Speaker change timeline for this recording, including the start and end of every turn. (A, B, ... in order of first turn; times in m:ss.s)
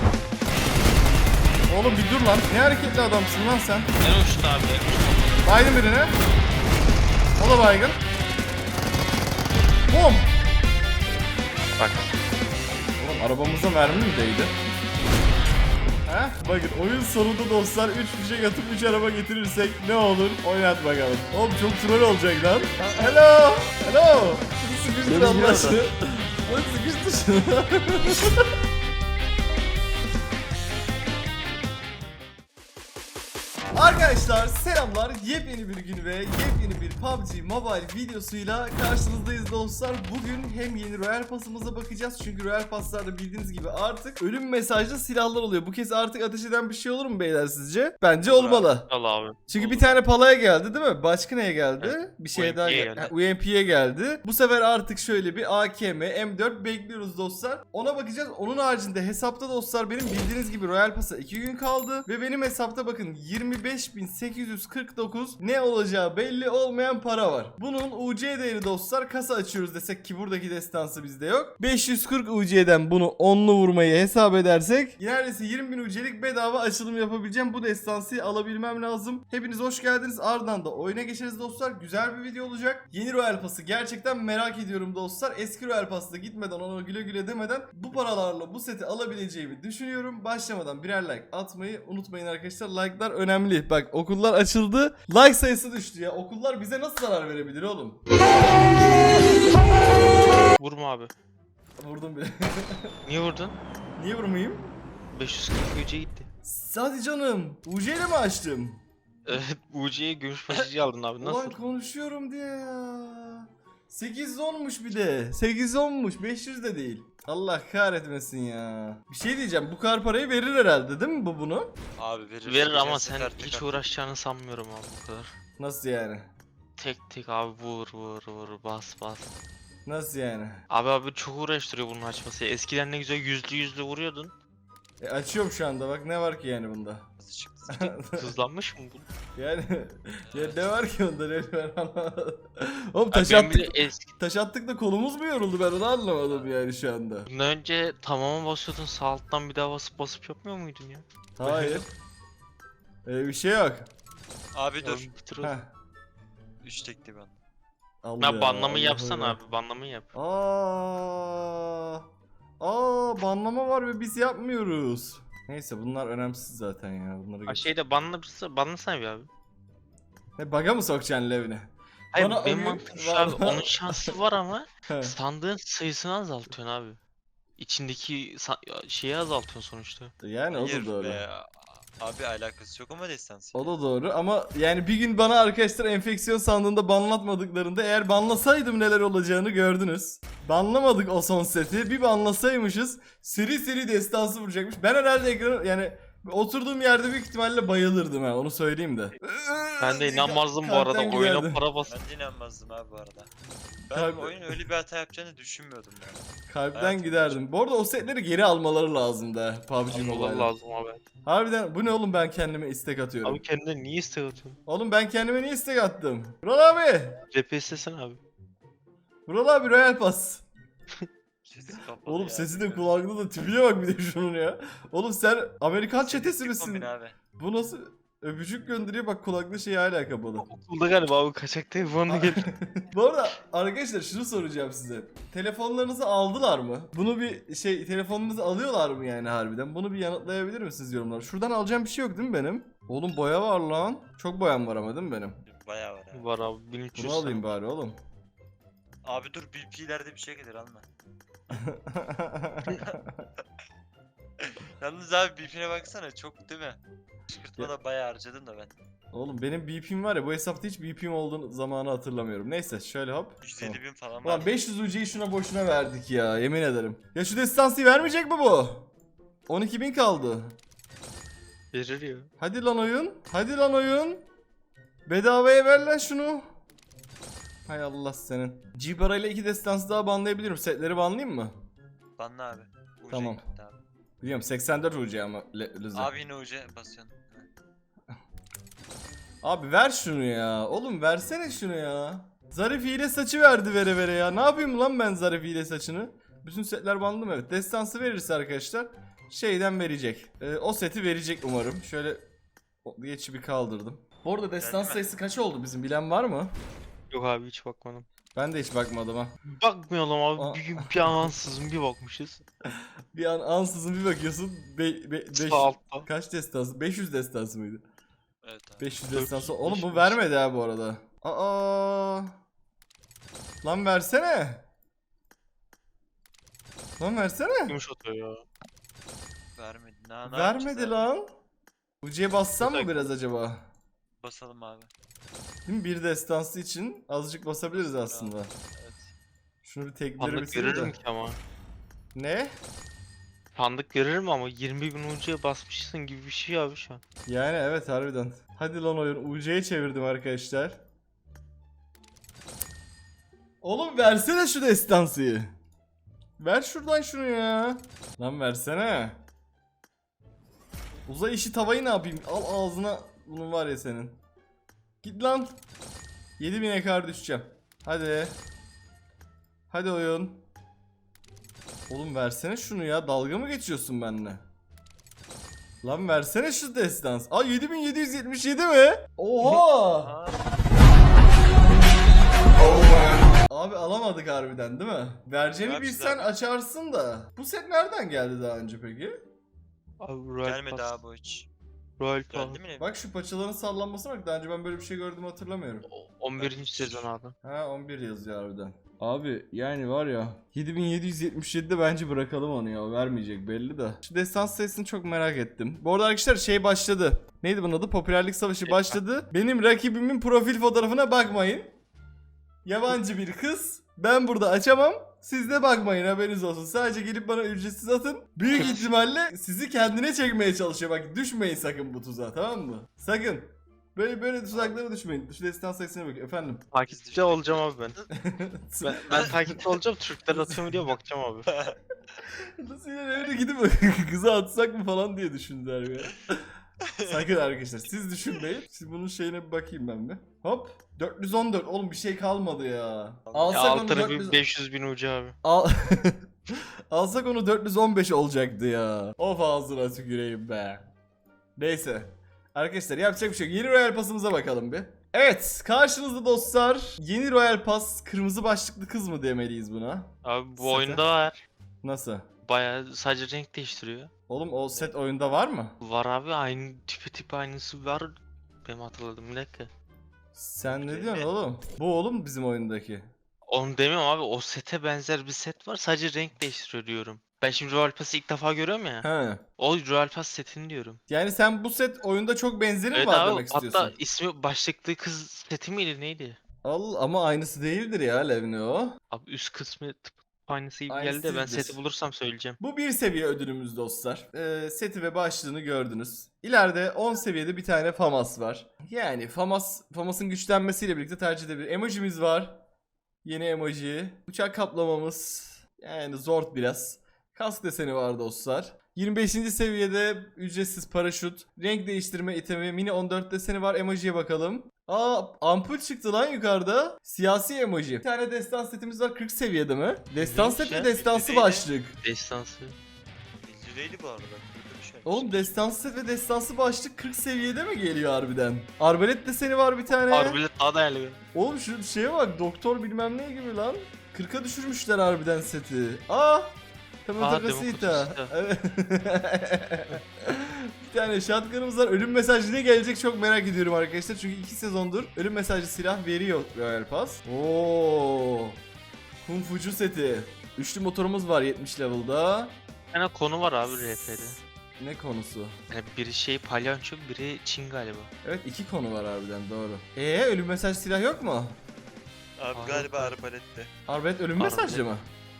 0:01.7-0:03.9 A
0:04.0-0:05.6 B
0:05.4-0:06.2 A
0:07.4-0:08.0 A
0:09.9-0:10.3 A
0:11.8-0:12.1 B
0:13.0-0:14.5 A
0:16.0-0:28.4 A
0:22.8-0:23.2 C
0:25.0-0:25.8 C
0:25.2-0:25.8 B
0:33.7-0:48.9 A
0:48.2-0:48.7 C
0:48.9-0:50.0 B
0:49.5-1:38.0 A
0:51.8-0:53.1 B
1:40.6-1:41.1 B
1:41.8-1:42.9 A
1:43.0-1:43.6 B
1:44.0-1:44.7 A
1:45.1-1:46.3 B
1:46.4-1:48.8 A
1:49.2-1:51.5 B
1:51.2-2:01.8 A
2:02.0-2:03.9 C
2:02.4-2:05.3 B
2:05.6-2:06.3 A
2:06.8-2:09.3 B
2:09.8-2:10.6 A
2:10.7-2:14.3 B
2:15.0-2:17.0 A
2:17.2-2:18.0 C
2:17.7-2:18.3 A
2:18.1-2:19.0 B
2:19.4-2:27.3 A
2:20.3-2:20.7 C
2:23.1-2:24.1 B
2:27.3-2:31.9 B
2:31.4-2:31.9 A
2:33.0-2:33.9 A
2:34.5-2:35.1 C
2:34.8-2:35.6 B
2:35.4-2:35.7 A
2:36.6-2:37.4 C
2:38.0-2:39.4 A
2:38.2-2:40.1 B
2:40.1-2:42.0 A
2:42.6-2:47.7 A
2:47.5-2:49.3 B
2:50.4-2:54.1 A
2:52.1-2:57.0 B
2:54.9-2:55.1 A
2:57.6-3:00.1 B
3:00.2-3:01.2 A
3:00.5-3:03.7 C
3:03.5-3:21.6 A
3:19.8-3:21.9 B
3:21.8-3:23.3 C
3:23.9-3:27.4 C
3:23.9-3:24.6 A
3:26.5-3:30.5 A
3:29.9-3:31.0 B
3:31.2-3:33.4 A
3:33.2-3:34.6 B
3:34.7-3:37.2 A
3:37.3-3:38.2 B
3:39.3-3:40.4 A
3:41.4-3:43.1 C
3:42.0-3:50.4 A
3:46.0-3:47.2 C
3:50.4-3:52.5 B
3:52.1-4:05.4 A
4:05.4-4:06.3 C
4:06.1-4:07.5 B
4:07.0-4:08.0 A
4:09.0-4:10.8 C
4:11.5-4:13.2 A
4:12.7-4:13.0 C
4:14.4-4:18.7 C
4:19.1-4:28.9 A
4:23.4-4:24.5 C
4:29.5-4:30.6 A
4:31.7-4:32.3 B
4:32.4-4:34.2 A
4:35.1-4:36.5 A
4:37.7-4:41.5 A
4:42.2-4:43.8 C
4:43.1-4:43.4 A
4:44.2-4:46.1 A
4:45.9-4:47.5 C
4:49.4-5:02.2 A
5:02.8-5:06.5 A
5:04.6-5:05.1 C
5:07.1-5:08.0 B
5:08.3-5:09.4 A
5:09.4-5:12.4 B
5:10.4-5:11.3 A
5:13.1-5:17.8 A
5:15.3-5:16.1 B
5:18.4-5:18.9 C
5:18.8-5:22.3 A
5:19.1-5:20.2 B
5:23.6-5:24.6 A
5:27.0-5:27.8 A
5:27.7-5:28.4 B
5:29.6-5:31.1 C
5:30.2-5:31.3 A
5:32.0-5:33.7 A
5:32.6-5:33.0 B
5:34.2-5:34.9 C
5:35.6-5:38.5 A
5:37.7-5:39.1 C
5:39.6-5:40.9 A
5:40.2-5:41.4 B
5:42.1-5:42.5 A
5:43.5-5:47.0 B
5:47.3-5:50.8 A
5:53.6-5:55.5 A
5:56.4-5:59.2 A
6:01.1-6:04.2 A
6:05.0-6:05.6 A
6:06.4-6:08.4 A
6:09.7-6:10.4 A
6:11.9-6:14.4 A
6:15.8-6:20.1 A
6:19.7-6:20.5 C
6:23.5-6:29.2 A
6:25.6-6:26.3 C
6:30.0-6:31.0 B
6:30.4-6:31.5 C
6:32.0-6:32.6 B
6:32.3-6:32.9 C
6:32.8-6:35.8 A
6:35.9-6:37.3 B
6:36.4-6:37.1 C
6:37.4-6:51.7 A
6:48.6-6:49.0 B
6:52.6-7:06.6 A
6:58.5-6:58.8 C
6:58.5-6:58.9 B
7:04.5-7:04.8 C
7:06.7-7:08.0 B
7:06.8-7:08.1 C
7:08.1-7:09.6 A
7:08.8-7:11.5 B
7:10.3-7:10.8 A
7:11.5-7:11.8 C
7:12.3-7:16.5 A
7:16.8-7:17.2 C
7:17.0-7:24.4 A
7:23.3-7:23.6 C
7:23.5-7:25.3 B
7:25.4-7:26.2 A
7:26.9-7:30.9 A
7:31.6-7:41.0 A
7:40.2-7:41.4 B
7:41.8-7:42.2 A
7:42.4-7:44.1 B
7:44.3-7:45.8 A
7:45.8-7:48.1 B
7:48.6-7:49.7 B
7:50.3-7:53.1 A
7:50.6-7:51.3 C
7:53.5-7:59.1 B
7:59.0-7:59.4 A
7:59.6-8:01.0 B
8:01.1-8:03.9 A
8:02.9-8:06.4 B
8:06.6-8:09.0 A
8:09.1-8:12.6 B
8:10.9-8:11.8 A
8:12.6-8:22.6 A
8:23.2-8:42.0 A
8:40.2-8:40.9 B
8:40.6-8:41.7 C
8:42.0-8:42.8 B
8:43.4-8:45.5 C
8:45.0-8:50.4 A
8:49.9-8:51.2 B
8:51.3-9:08.6 A
8:57.2-8:58.3 B
9:09.2-9:12.6 A
9:12.9-9:14.4 B
9:13.7-9:15.6 A
9:15.7-9:18.1 B
9:18.2-9:21.6 A
9:22.4-9:23.7 C
9:22.5-9:23.1 B
9:23.9-9:25.0 A
9:24.4-9:24.8 B